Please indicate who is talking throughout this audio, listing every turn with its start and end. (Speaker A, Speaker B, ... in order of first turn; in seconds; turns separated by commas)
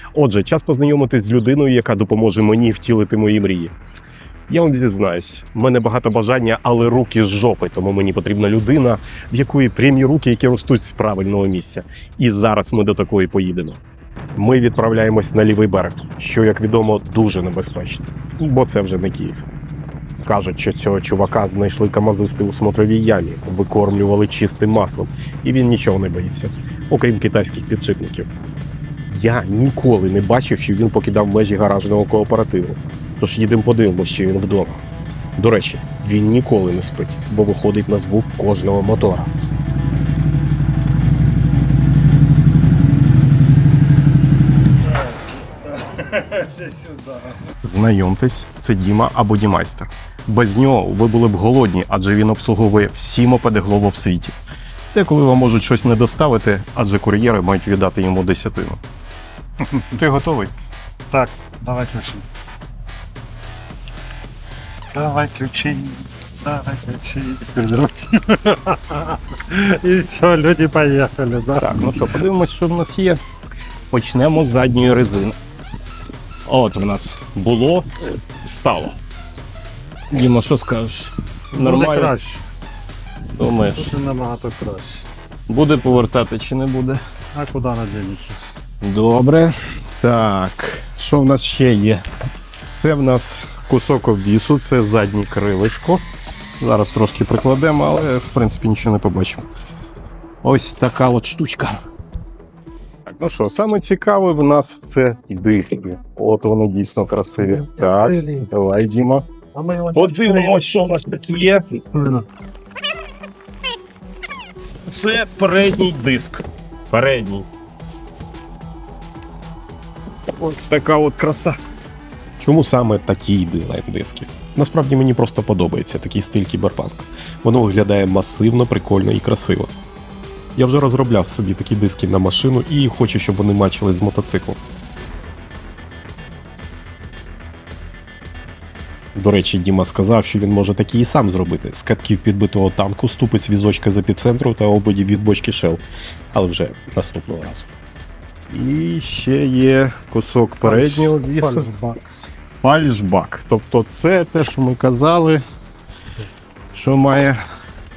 Speaker A: 0.1-3.7, Speaker A: 4.5-13.8, Speaker A: 14.3-19.5, Speaker A: 20.2-28.3, Speaker A: 29.1-34.8, Speaker A: 35.4-39.3, Speaker B: 46.3-46.9, Speaker A: 47.6-54.3, Speaker A: 54.9-58.8, Speaker A: 59.9-60.5, Speaker B: 61.1-62.2, Speaker B: 64.9-72.0, Speaker A: 71.6-73.2, Speaker A: 73.9-75.3, Speaker A: 76.5-79.0, Speaker A: 80.1-82.1, Speaker B: 81.5-82.4, Speaker A: 83.3-83.9, Speaker B: 83.7-85.1, Speaker A: 85.5-87.0, Speaker B: 87.3-88.4, Speaker A: 88.8-92.0, Speaker A: 92.7-96.0, Speaker A: 96.6-99.4, Speaker A: 100.4-101.8, Speaker A: 103.1-109.2, Speaker B: 109.5-110.5, Speaker A: 109.9-111.9, Speaker B: 111.9-112.2, Speaker A: 114.9-117.5, Speaker A: 120.4-121.6, Speaker A: 122.4-129.7, Speaker A: 130.6-134.6, Speaker A: 139.1-145.8, Speaker A: 146.3-147.7, Speaker A: 148.5-151.7, Speaker B: 150.6-152.0, Speaker A: 152.6-155.4, Speaker A: 156.7-157.4